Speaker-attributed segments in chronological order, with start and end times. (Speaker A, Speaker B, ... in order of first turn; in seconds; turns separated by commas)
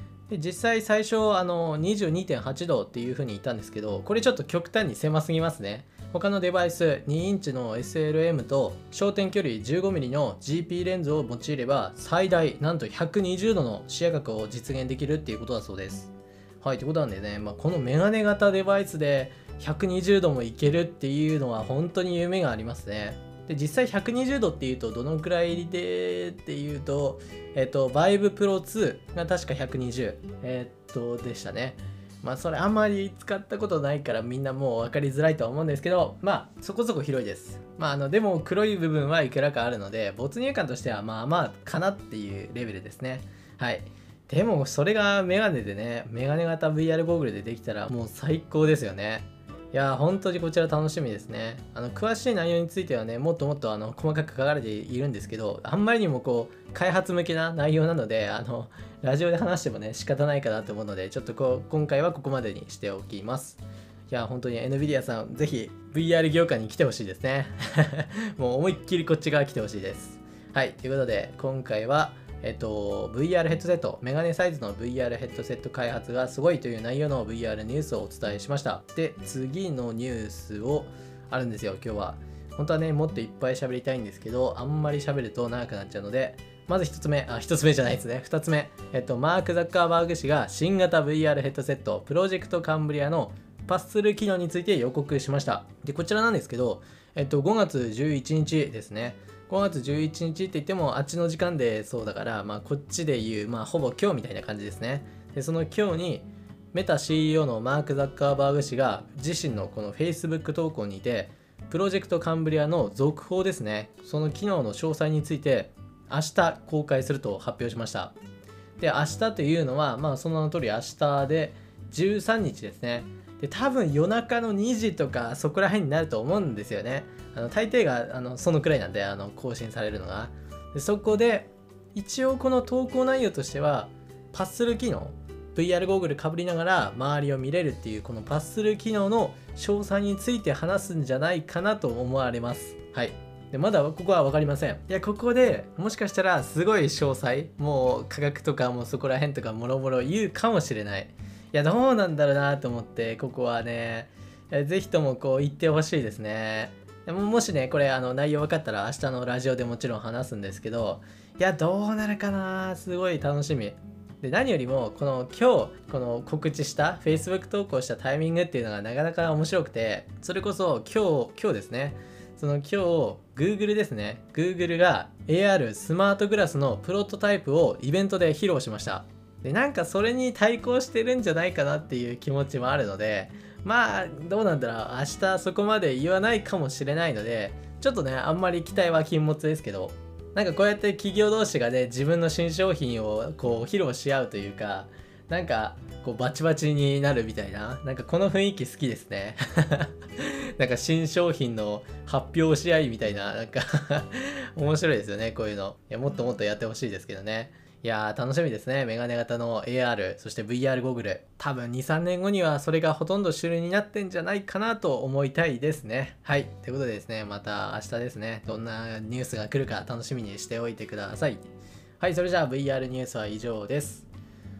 Speaker A: 0.3-118.1, Speaker A: 118.8-221.4, Speaker A: 222.0-224.1